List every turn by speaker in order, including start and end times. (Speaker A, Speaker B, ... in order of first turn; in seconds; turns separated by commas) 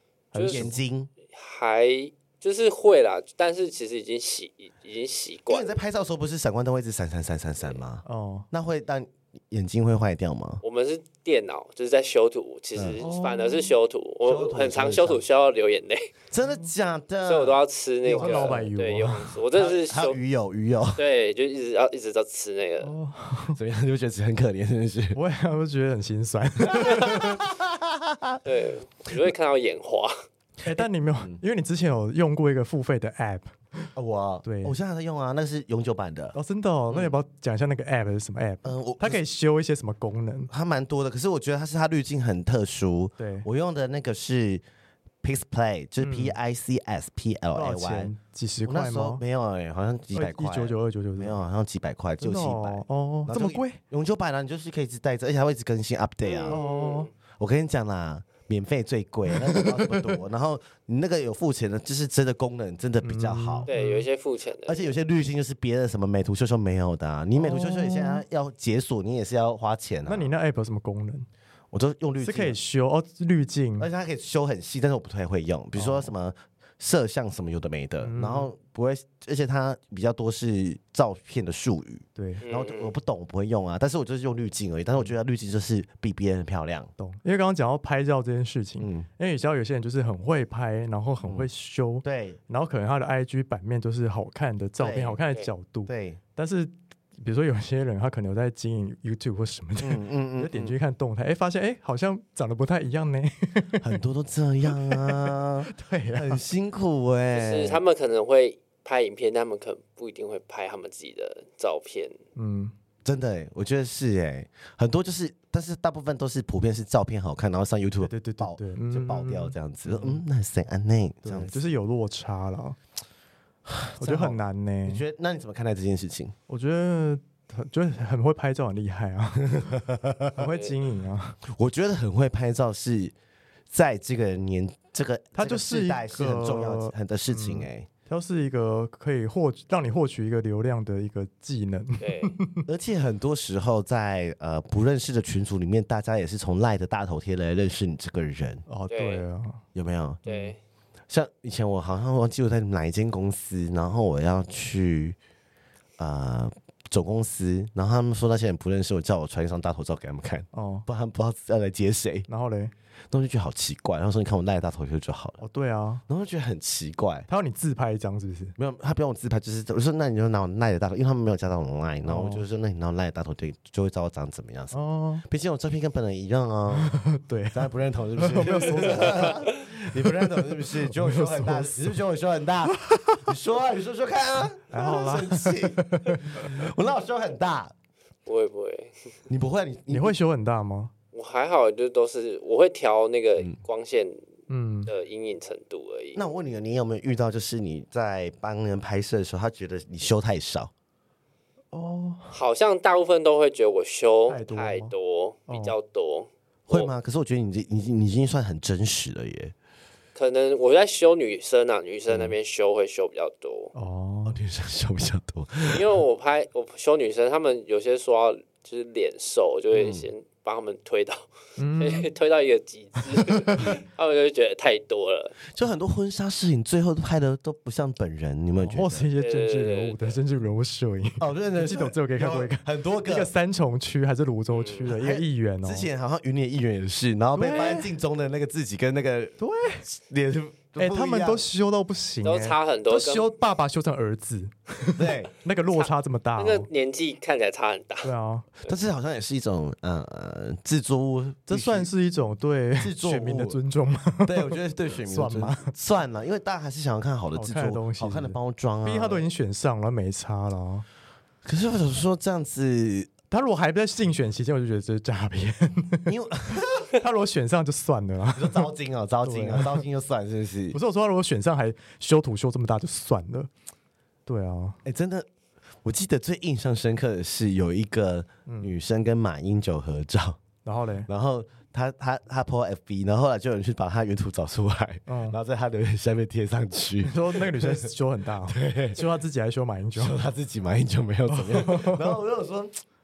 Speaker A: 0.3-0.8, Speaker B: 0.3-0.7, Speaker C: 0.5-1.1, Speaker B: 1.3-5.7, Speaker C: 5.5-10.6, Speaker A: 8.0-8.5, Speaker B: 10.6-16.1, Speaker C: 12.7-13.1, Speaker A: 13.0-13.7, Speaker C: 14.2-15.2, Speaker C: 16.3-18.7, Speaker B: 17.2-20.2, Speaker A: 18.1-19.4, Speaker C: 19.5-21.0, Speaker B: 21.0-22.9, Speaker A: 22.8-23.6, Speaker C: 23.6-25.2, Speaker A: 25.1-27.4, Speaker C: 26.7-28.4, Speaker B: 28.4-30.1, Speaker A: 30.6-33.9, Speaker C: 30.7-31.4, Speaker C: 34.0-36.4, Speaker A: 34.4-34.8, Speaker A: 36.3-40.5, Speaker C: 38.6-39.2, Speaker C: 40.5-44.6, Speaker A: 43.2-43.5, Speaker C: 45.2-48.1, Speaker A: 46.0-46.4, Speaker A: 47.5-49.2, Speaker C: 48.6-56.6, Speaker A: 50.1-51.4, Speaker A: 52.2-53.8, Speaker B: 56.2-57.1, Speaker A: 56.5-57.1, Speaker C: 57.4-63.7, Speaker A: 59.3-60.1, Speaker A: 63.0-64.1, Speaker B: 63.7-64.9, Speaker C: 64.7-70.3, Speaker A: 67.3-68.2, Speaker A: 70.0-71.3, Speaker C: 71.7-72.6, Speaker A: 72.2-73.9, Speaker C: 73.8-86.9, Speaker A: 75.8-76.1, Speaker A: 78.0-78.5, Speaker A: 82.2-82.4, Speaker B: 82.4-82.9, Speaker A: 87.0-104.0, Speaker C: 88.8-89.1, Speaker C: 91.2-91.5, Speaker C: 92.0-92.4, Speaker C: 94.8-95.2, Speaker C: 95.9-96.2, Speaker C: 99.8-100.8, Speaker C: 103.8-107.8, Speaker A: 104.7-106.4, Speaker B: 107.3-112.2, Speaker A: 112.3-112.7, Speaker C: 113.0-121.6, Speaker A: 118.0-120.2, Speaker A: 121.2-122.8, Speaker C: 123.6-126.3, Speaker A: 124.0-125.0, Speaker A: 126.5-131.4, Speaker C: 129.6-130.3, Speaker C: 131.5-133.1, Speaker C: 133.7-137.9, Speaker A: 135.3-142.7, Speaker B: 142.0-142.3, Speaker C: 142.7-148.6, Speaker A: 148.7-149.6, Speaker B: 148.9-149.2, Speaker C: 149.7-150.2, Speaker B: 150.2-150.6, Speaker A: 150.2-150.5, Speaker C: 151.1-155.2, Speaker C: 156.0-162.3, Speaker A: 160.5-160.9, Speaker A: 162.3-162.7, Speaker C: 163.1-165.4, Speaker A: 165.4-166.0, Speaker C: 166.1-167.3, Speaker A: 167.3-168.5, Speaker C: 168.6-177.0, Speaker A: 172.0-172.4, Speaker A: 174.7-175.2, Speaker A: 176.7-179.5, Speaker C: 177.5-187.7, Speaker A: 180.4-182.0, Speaker A: 182.7-183.3, Speaker A: 184.7-186.6, Speaker B: 188.2-189.1, Speaker C: 189.3-190.2, Speaker A: 189.9-190.9, Speaker B: 191.1-194.2, Speaker A: 194.5-194.9, Speaker B: 194.9-196.2, Speaker C: 196.2-200.7, Speaker A: 201.7-202.4, Speaker B: 202.3-206.9, Speaker A: 204.3-204.9, Speaker A: 205.5-205.8, Speaker C: 206.7-209.5, Speaker B: 210.1-213.7, Speaker C: 212.1-212.3, Speaker A: 213.7-214.4, Speaker C: 214.2-216.0, Speaker B: 215.7-221.2, Speaker C: 219.7-220.1, Speaker A: 221.6-222.1, Speaker B: 221.8-225.4, Speaker C: 225.5-229.1, Speaker A: 228.6-235.9, Speaker B: 229.2-230.2, Speaker C: 231.2-233.3, Speaker B: 234.5-234.9, Speaker C: 234.8-239.4, Speaker A: 237.3-237.9, Speaker A: 239.4-239.9, Speaker C: 239.9-241.4, Speaker A: 240.8-246.7, Speaker B: 242.2-243.3, Speaker C: 244.9-245.3, Speaker B: 245.7-248.1, Speaker A: 248.0-248.5, Speaker C: 248.6-251.9, Speaker A: 251.5-255.7, Speaker C: 252.8-253.6, Speaker C: 254.2-259.3, Speaker A: 257.3-260.8, Speaker C: 261.4-263.1, Speaker A: 263.3-268.7, Speaker C: 266.1-266.9, Speaker C: 268.3-270.8, Speaker A: 269.2-269.8, Speaker A: 270.7-273.5, Speaker A: 274.2-274.8, Speaker C: 274.8-275.3, Speaker C: 275.8-280.4, Speaker A: 278.5-278.7, Speaker A: 280.6-281.1, Speaker C: 281.1-287.9, Speaker A: 285.1-285.4, Speaker A: 287.0-290.2, Speaker C: 288.5-289.0, Speaker C: 289.9-292.7, Speaker A: 291.3-292.2